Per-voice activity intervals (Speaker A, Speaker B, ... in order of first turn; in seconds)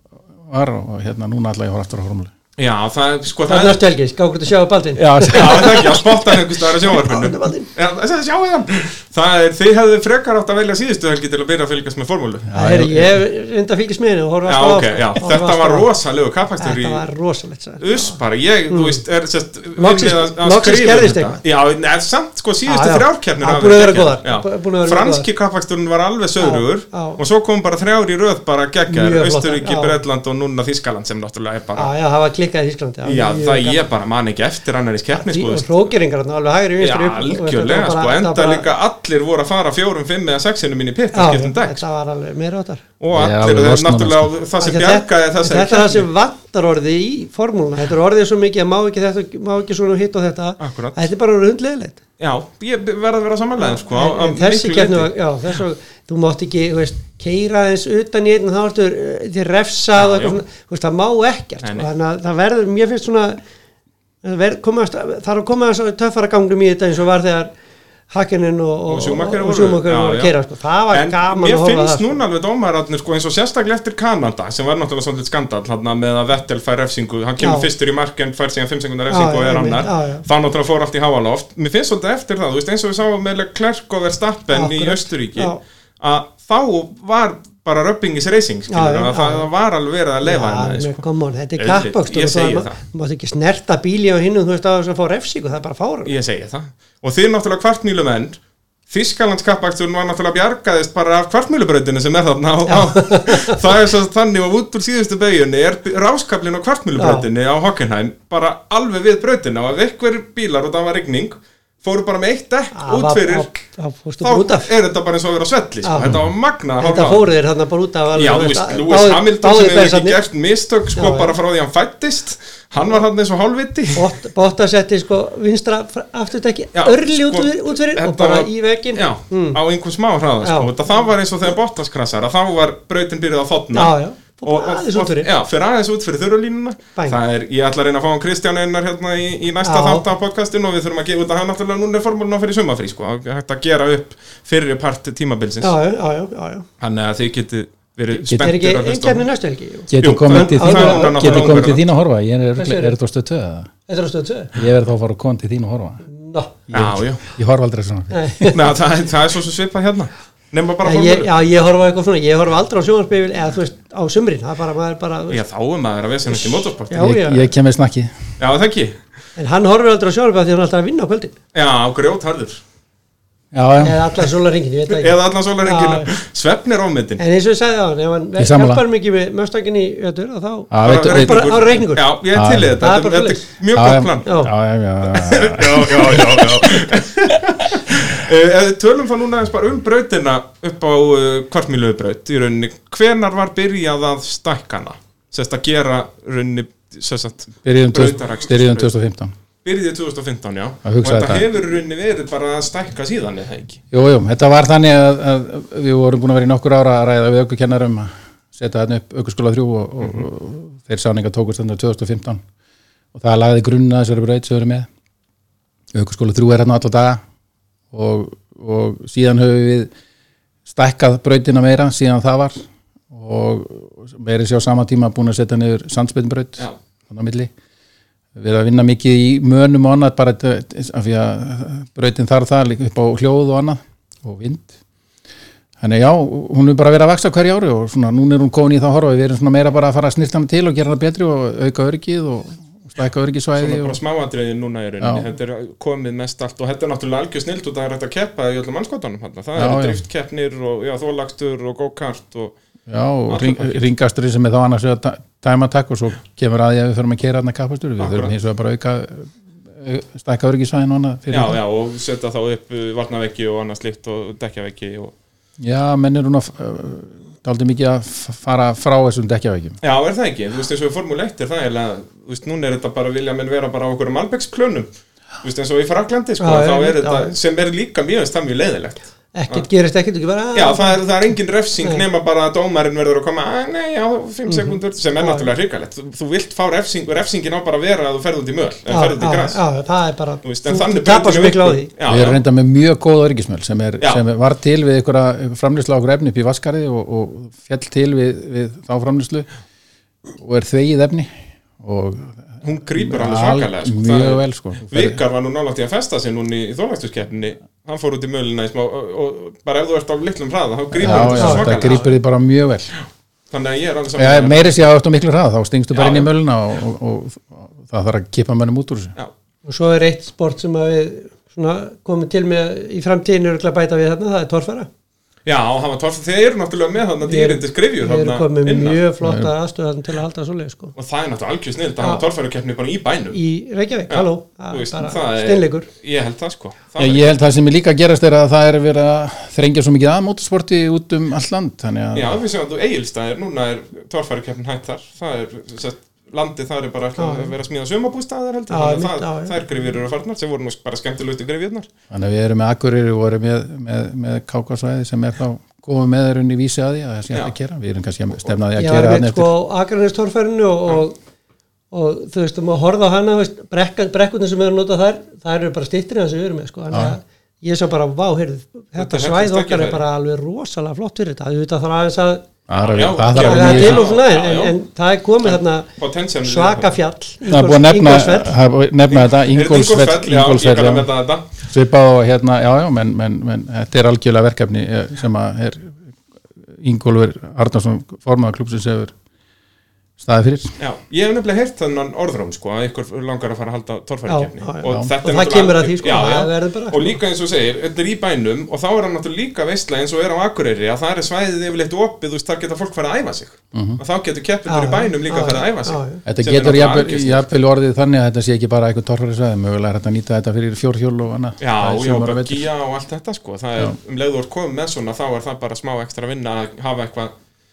Speaker A: 0.4-2.3, 5.0-5.8, 12.5-13.2, 43.1-44.3, 148.2-148.5, 149.9-153.7, 154.6-156.0, 156.7-158.4, 166.9-168.1, 173.5-174.1, 178.4-178.8, 180.7-181.8, 182.3-182.8, 183.7-187.3, 197.6-199.3, 200.8-201.5, 203.9-212.4, 213.1-214.9, 215.9-217.2, 217.9-219.9, 220.7-222.6, 223.1-227.5, 228.3-234.7, 235.8-244.0, 249.6-250.0, 252.9-261.6, 265.6-269.8, 292.1-299.5, 300.3-305.2, 310.9-312.9, 314.2-319.1, 329.2-329.5, 337.0-342.4, 352.1-359.5, 372.7-374.0, 377.5-381.1, 381.7-386.0, 386.7-389.1, 390.2-390.7, 403.7-404.0, 406.3-412.7
Speaker B: 2.6-3.8, 5.3-12.5, 14.5-17.1, 17.8-31.9, 33.0-35.9, 36.8-41.8, 43.0-46.1, 50.6-51.0, 52.2-55.1, 60.0-60.4, 68.9-70.3, 70.9-91.0, 91.6-92.8, 96.1-98.4, 98.9-113.5, 114.2-117.3, 118.1-124.1, 126.8-145.7, 146.8-149.3, 150.0-151.9, 156.7-157.2, 158.5-161.3, 165.3-167.1, 168.4-169.0, 171.5-172.6, 174.9-177.2, 180.8-184.4, 185.1-198.9, 199.7-203.8, 243.6-252.6, 253.3-253.8, 258.0-258.3, 261.3-265.1, 269.8-274.9, 275.4-279.7, 280.6-289.6, 290.4-292.4, 302.6-312.0, 313.5-314.8, 315.9-316.3, 325.4-329.0, 331.0-333.4, 334.1-337.4, 342.1-351.9, 369.0-370.0, 372.8-374.8, 375.4-376.9, 379.1-381.5, 390.8-407.4, 411.6-417.3
Speaker C: 3.5-7.7, 12.5-15.9, 16.6-18.2, 18.7-19.0, 19.8-21.4, 22.6-25.3, 26.4-27.2, 28.9-30.0, 31.8-33.8, 35.1-38.7, 41.1-42.8, 44.6-52.0, 53.6-63.4, 64.2-67.5, 68.1-72.2, 77.4-77.7, 79.1-80.2, 84.5-85.6, 88.7-89.5, 90.2-96.1, 102.7-103.6, 107.0-107.3, 112.7-114.7, 115.8-116.2, 116.8-120.2, 120.9-121.4, 124.0-129.6, 130.4-130.7, 133.7-135.3, 139.6-140.1, 145.6-146.7, 148.3-151.7, 152.6-152.9, 153.9-154.5, 156.1-156.5, 158.1-158.7, 160.8-165.4, 166.9-167.5, 169.4-171.3, 173.8-176.1, 177.2-182.1, 182.8-183.4, 184.2-184.5, 276.4-277.3, 279.3-281.0, 284.5-285.5, 288.9-291.9, 311.1-312.1, 319.7-324.9, 327.2-330.9, 333.3-335.9, 347.2-347.5, 348.7-349.6, 358.8-361.2, 361.9-372.4, 373.4-375.9, 376.4-378.6, 394.3-397.1, 404.7-406.2